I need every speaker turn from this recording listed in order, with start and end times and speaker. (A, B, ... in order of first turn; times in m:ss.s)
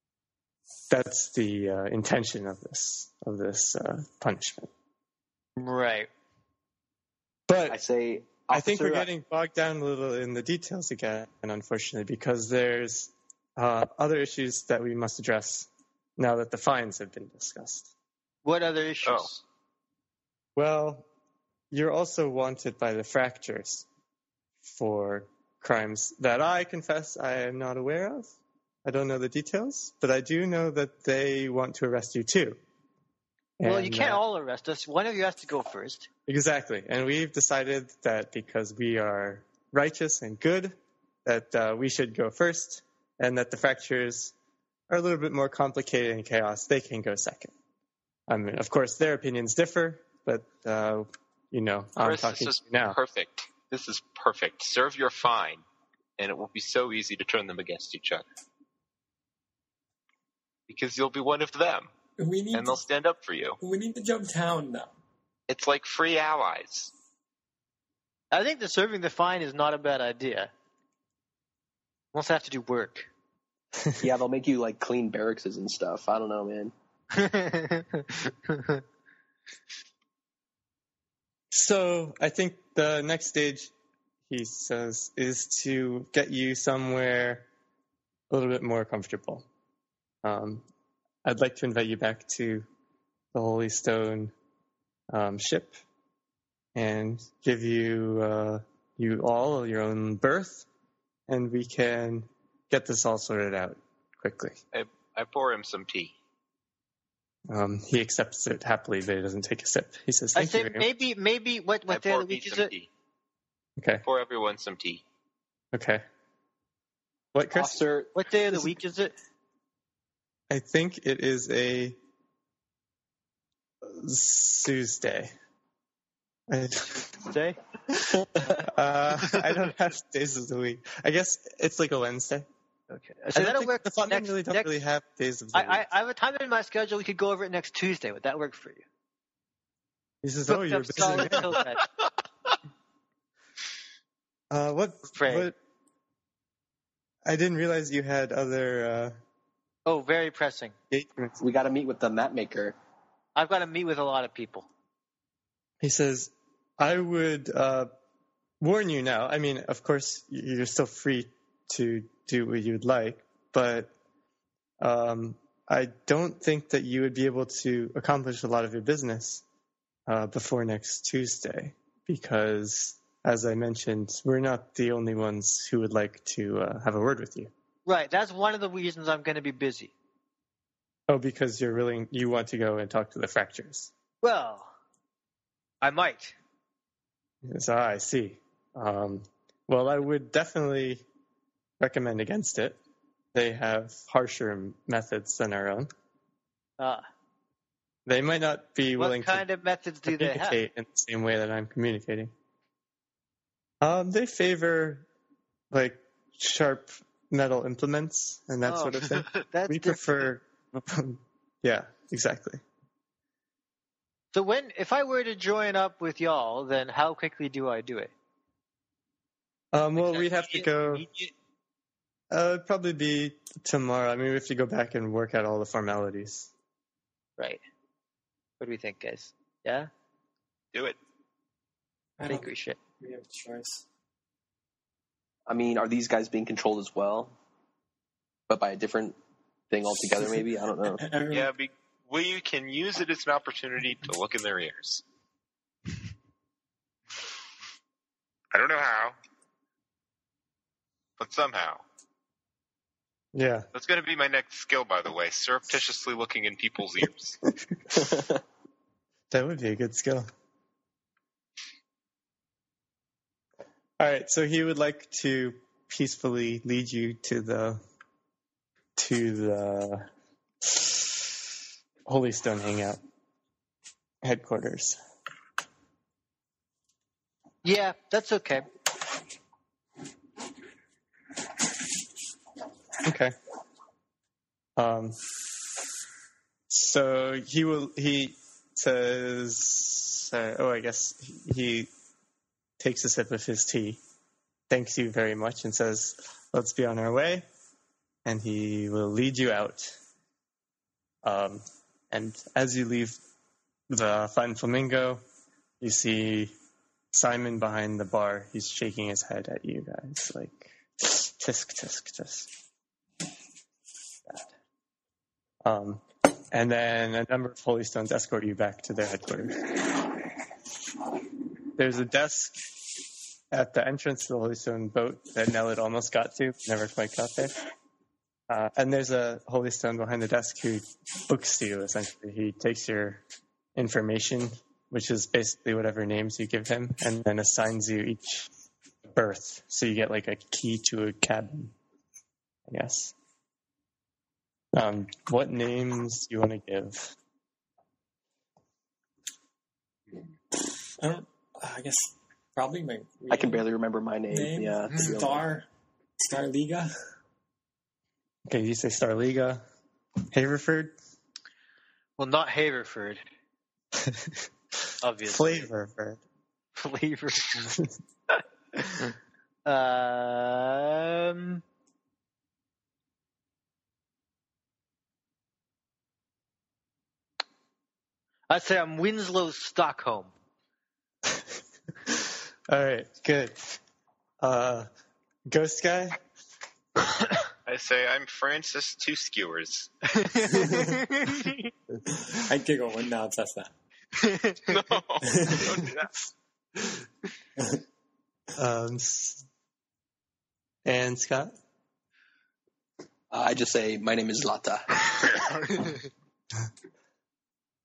0:00.9-0:04.7 A
0:05.6-0:06.1 B
0:07.5-0:07.8 A
0:07.7-0:09.1 C
0:08.4-0:17.9 A
0:18.4-0:19.4 B
0:20.6-0:21.0 A
0:21.7-0:23.9 A
0:24.6-0:32.6 A
0:33.6-0:34.2 A
0:33.6-0:36.1 B
0:36.3-0:44.3 A
0:44.9-0:47.5 A
0:48.3-0:53.0 A
0:52.0-0:55.6 D
0:56.2-0:58.2 D
1:00.7-1:01.9 D
1:02.2-1:02.8 E
1:02.5-1:03.6 D
1:03.6-1:04.9 E
1:05.5-1:06.9 D
1:08.3-1:10.5 B
1:12.1-1:13.1 B
1:14.0-1:16.7 C
1:17.1-1:18.8 B
1:21.5-1:23.7 A
1:24.3-1:27.5 A
1:28.3-1:29.5 A
1:30.2-1:30.6 A
1:31.2-1:32.7 A
1:33.3-1:34.3 A
1:35.1-1:35.8 A
1:36.8-1:40.7 A
1:41.3-1:44.6 A
1:44.7-1:46.1 D
1:47.5-1:50.9 A
1:50.4-1:52.7 B
1:51.9-1:52.9 D
1:53.8-1:54.0 A
1:54.0-1:55.0 D
1:55.7-1:56.0 A
1:57.3-1:57.8 A
1:57.5-1:58.1 C
1:58.1-1:59.1 B
2:00.5-2:02.0 A
2:03.8-2:05.3 A
2:06.5-2:07.1 A
2:07.1-2:07.6 B
2:07.9-2:12.5 A
2:12.9-2:14.7 B
2:13.4-2:15.8 A
2:15.5-2:18.8 B
2:20.2-2:21.6 A
2:20.5-2:21.8 B
2:24.5-2:25.6 A
2:25.1-2:25.5 B
2:27.2-2:29.2 A
2:29.9-2:30.8 B
2:30.9-2:31.4 A
2:31.4-2:32.8 C
2:33.4-2:34.7 B
2:35.8-2:37.9 A
2:38.6-2:43.9 A
2:44.8-2:49.4 A
2:50.1-2:57.5 A
2:57.9-2:59.9 B
3:01.1-3:03.9 A
3:04.2-3:04.7 B
3:05.8-3:06.4 B
3:07.4-3:11.0 A
3:11.8-3:12.8 A
3:13.3-3:15.9 A
3:16.8-3:17.0 B
3:18.1-3:19.4 A
3:19.0-3:20.6 B
3:20.1-3:22.3 A
3:23.8-3:25.1 A
3:25.7-3:32.6 A
3:28.7-3:30.0 B
3:34.3-3:38.1 B
3:39.7-3:41.1 A
3:40.0-3:41.3 B
3:42.3-3:46.5 A
3:48.6-3:49.9 B
3:52.2-3:53.8 E
3:52.3-3:52.8 B
3:55.5-3:57.4 C
3:58.5-3:59.2 C
3:59.7-4:01.0 C
4:01.0-4:01.5 E
4:01.3-4:05.0 D
4:08.5-4:09.2 D
4:11.2-4:11.8 D
4:13.3-4:13.7 A
4:13.7-4:17.4 D
4:18.1-4:18.3 C
4:19.3-4:20.3 A
4:24.0-4:27.8 A
4:29.0-4:30.1 A
4:30.6-4:31.4 A
4:32.1-4:33.0 A
4:34.2-4:35.0 A
4:37.6-4:38.7 B
4:43.0-4:43.4 A
4:44.8-4:45.2 A
4:46.7-4:51.9 A
4:52.8-4:54.0 A
4:54.7-4:57.5 A
4:58.2-5:00.0 A
5:01.2-5:03.2 A
5:03.9-5:05.2 A
5:05.8-5:06.5 A
5:07.1-5:12.5 A
5:15.6-5:20.2 A
5:21.8-5:22.7 A
5:23.5-5:27.6 A
5:28.5-5:33.2 A
5:33.8-5:38.5 A
5:39.1-5:41.7 A
5:42.7-5:43.1 A
5:44.7-5:47.2 A
5:50.5-5:53.6 E
5:53.3-5:55.4 C
5:54.3-5:55.7 E
5:56.2-5:56.9 E
5:58.5-5:59.6 A
6:00.3-6:01.0 A
6:02.2-6:03.2 B
6:04.0-6:04.4 A
6:05.0-6:05.7 B
6:05.2-6:06.2 A
6:06.8-6:07.8 B
6:09.6-6:11.6 B
6:18.5-6:20.3 B
6:22.1-6:23.8 A
6:24.4-6:24.9 A
6:25.5-6:26.2 A
6:27.6-6:29.9 D
6:30.3-6:31.5 B
6:30.5-6:30.9 E
6:32.1-6:33.7 E
6:34.2-6:34.6 B
6:34.7-6:36.1 D
6:35.2-6:35.7 E
6:38.6-6:39.4 A
6:40.8-6:41.5 A
6:43.3-6:45.3 C